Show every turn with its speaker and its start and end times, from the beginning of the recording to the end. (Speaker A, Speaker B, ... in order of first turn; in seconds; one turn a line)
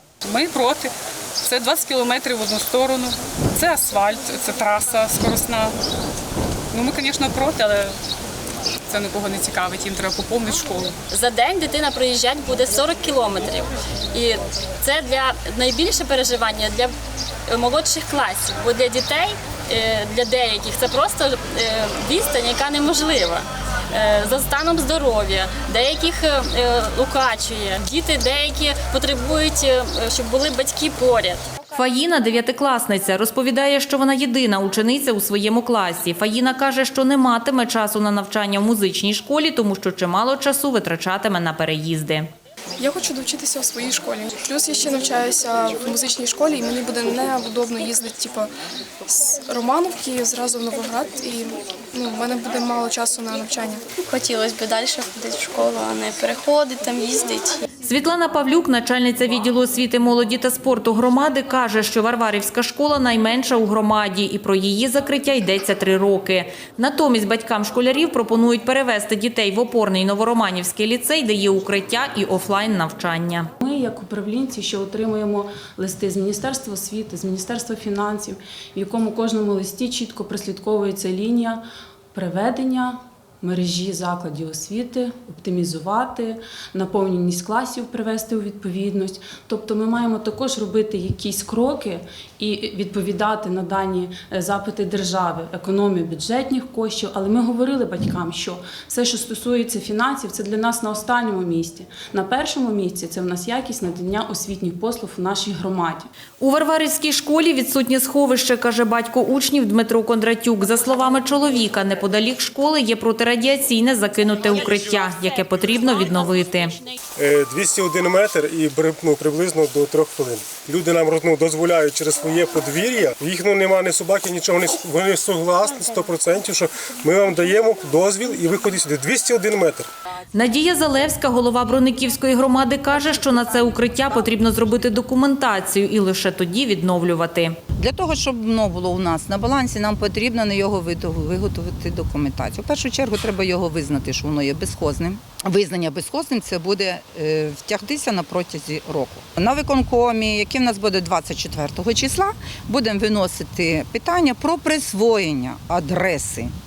Speaker A: 0.3-5.8
Speaker A: 6.7-7.9
Speaker A: 8.9-11.0
Speaker B: 11.1-16.9
Speaker B: 17.5-31.4
Speaker C: 31.7-42.3
Speaker D: 42.8-48.5
Speaker D: 49.1-53.8
Speaker E: 54.1-57.6
Speaker C: 57.8-73.5
Speaker F: 73.6-81.6
Speaker F: 82.1-106.1
Speaker C: 106.4-116.8
Speaker G: 117.2-129.9
Speaker C: 130.3-137.6
Speaker H: 137.8-156.5